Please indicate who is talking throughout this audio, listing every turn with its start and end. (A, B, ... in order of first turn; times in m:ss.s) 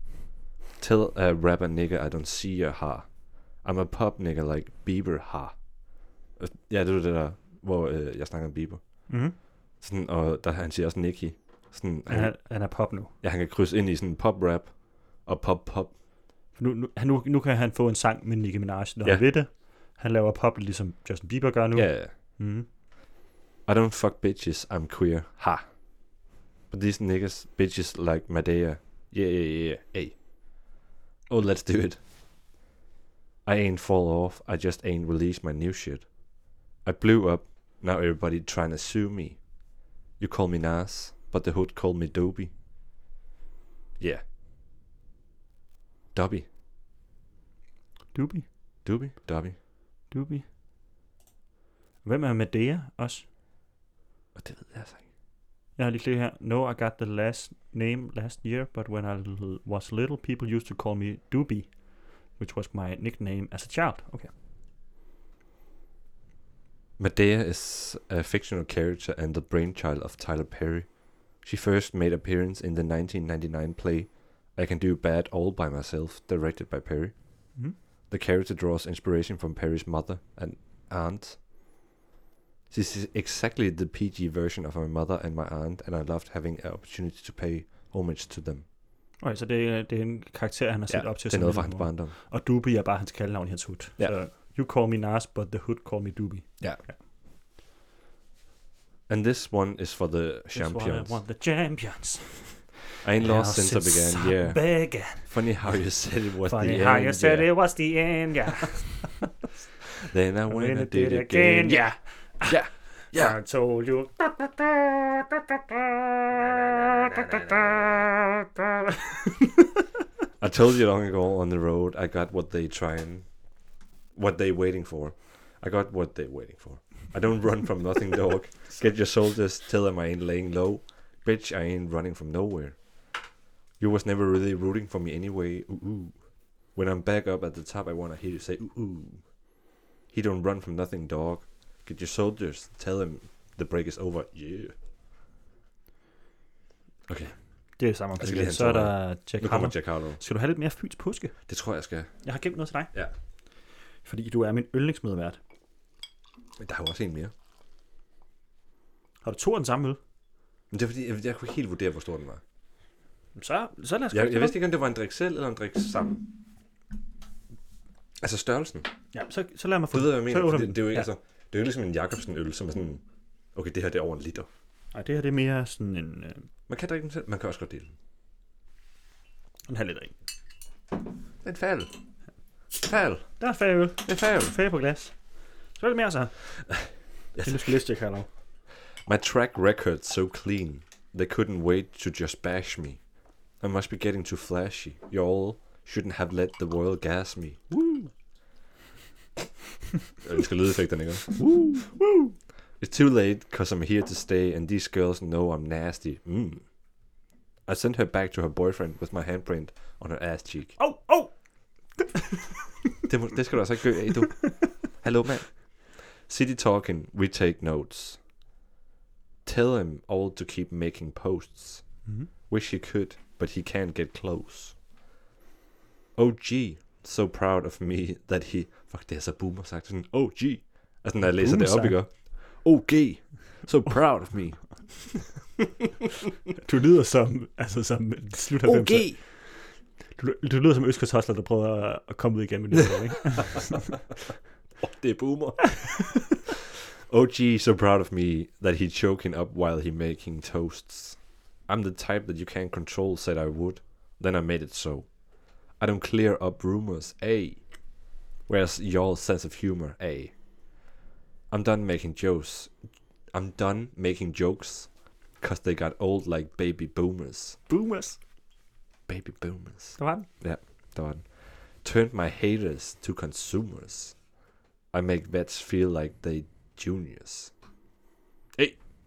0:00.8-0:05.6 A
0:06.4-0:09.1 A
0:09.1-0:09.4 B
0:09.8-0:12.4 A
0:12.1-0:13.1 B
0:13.2-0:16.0 A
0:16.5-0:22.7 B
0:21.7-0:22.1 A
0:23.6-0:25.6 A
0:26.7-0:30.2 A
0:31.3-0:32.0 A
0:33.4-0:36.1 A
0:36.8-0:39.4 A
0:40.2-0:42.5 A
0:46.1-0:46.5 A
0:48.1-0:48.4 B
0:48.8-0:49.6 A
0:50.1-0:50.4 B
0:52.0-0:53.2 B
0:54.3-0:55.0 A
0:55.8-1:04.3 B
1:07.0-1:17.2 A
1:18.1-1:21.4 A
1:22.7-1:28.6 A
1:29.2-1:37.0 B
1:30.9-1:32.1 A
1:39.1-1:41.2 A
1:40.5-1:45.3 B
1:43.0-1:47.5 A
1:46.4-1:49.2 B
1:50.0-1:51.9 A
1:50.5-1:59.6 B
1:52.4-1:53.4 A
2:00.4-2:03.3 A
2:04.1-2:12.8 A
2:13.8-2:16.2 A
2:16.7-2:19.3 A
2:20.1-2:24.7 A
2:27.1-2:27.3 A
2:27.8-2:31.3 B
2:28.2-2:30.2 A
2:31.5-2:32.1 A
2:32.2-2:32.9 B
2:34.0-2:35.4 B
2:36.6-2:37.3 A
2:39.2-2:40.0 B
2:40.7-2:42.4 A
2:43.4-2:44.6 B
2:44.1-2:46.3 A
2:48.2-2:48.9 A
2:49.1-2:51.1 B
2:49.9-2:53.0 A
2:53.5-2:54.5 A
2:54.9-2:56.5 B
2:56.7-2:57.9 A
2:59.7-3:00.1 B
3:01.4-3:01.9 A
3:02.7-3:03.3 A
3:03.4-3:05.2 B
3:04.0-3:04.6 A
3:05.7-3:06.6 B
3:06.6-3:07.7 A
3:07.4-3:08.3 B
3:09.0-3:13.0 A
3:13.6-3:17.7 A
3:17.8-3:18.1 B
3:20.2-3:21.8 A
3:21.4-3:22.3 B
3:22.8-3:26.6 A
3:27.6-3:30.8 A
3:30.8-3:31.3 B
3:32.0-3:32.4 B
3:33.1-3:38.2 A
3:39.4-3:44.8 A
3:46.1-3:55.5 A
3:51.3-3:52.0 B
3:56.6-4:04.0 B
3:58.6-3:59.2 A
4:04.8-4:06.5 A
4:05.8-4:06.2 B
4:07.1-4:15.1 A
4:15.8-4:17.6 A
4:18.5-4:20.3 A
4:21.5-4:22.7 A
4:23.3-4:27.6 A
4:27.7-4:28.2 B
4:29.1-4:34.2 A
4:30.0-4:30.3 B
4:34.9-4:37.5 A